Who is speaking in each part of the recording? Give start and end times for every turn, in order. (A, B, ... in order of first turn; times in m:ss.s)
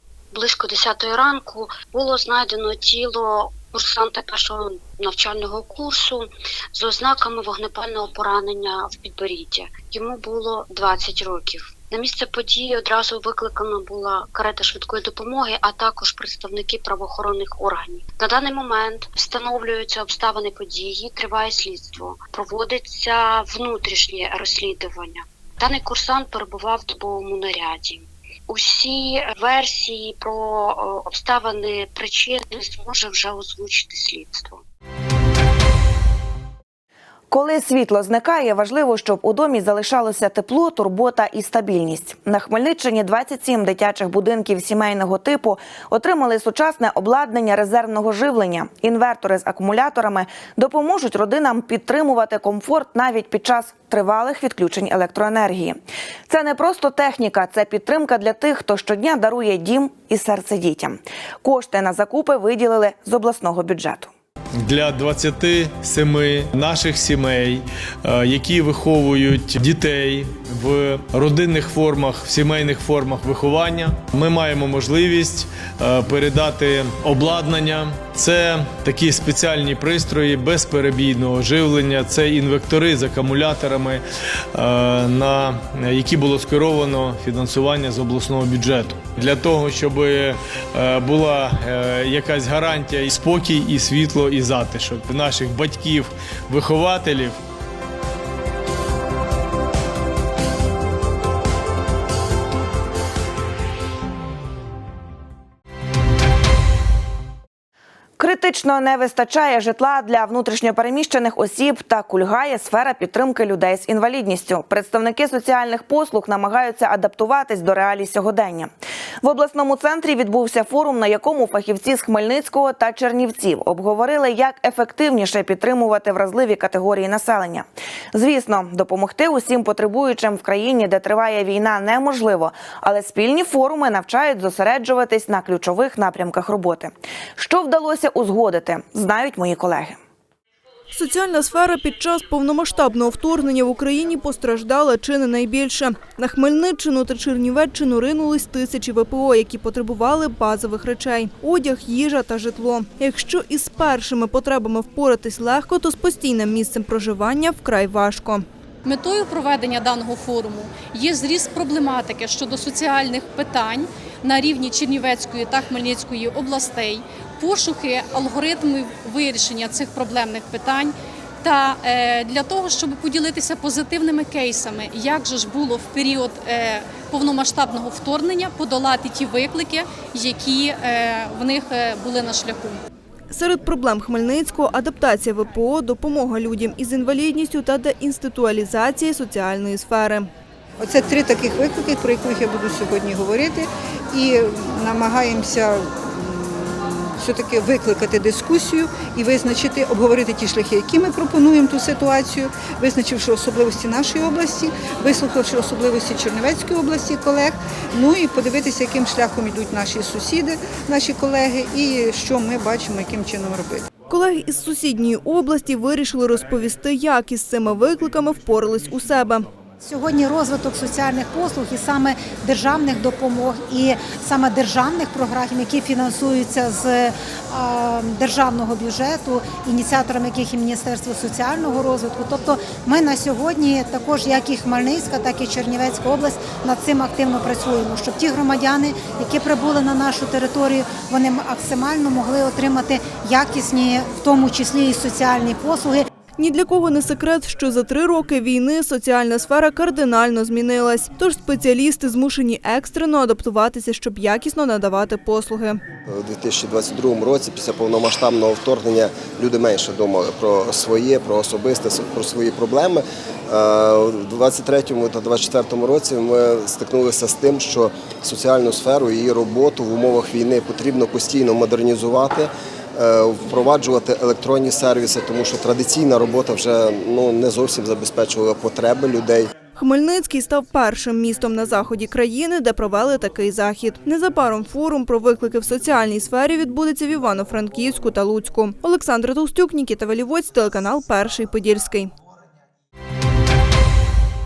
0:00.3-0:34.6 A
0:37.3-1:04.1 B
1:04.6-1:24.0 C
1:24.5-1:37.4 C
1:48.2-1:58.7 B
1:59.2-2:20.0 B
2:20.9-2:38.5 D
2:38.8-3:02.8 E
3:03.3-3:10.3 D
3:10.8-3:33.9 F
3:34.1-3:39.5 D
3:39.8-4:06.1 G
4:06.4-4:15.8 D
4:16.1-4:39.5 H
4:39.8-4:52.1 D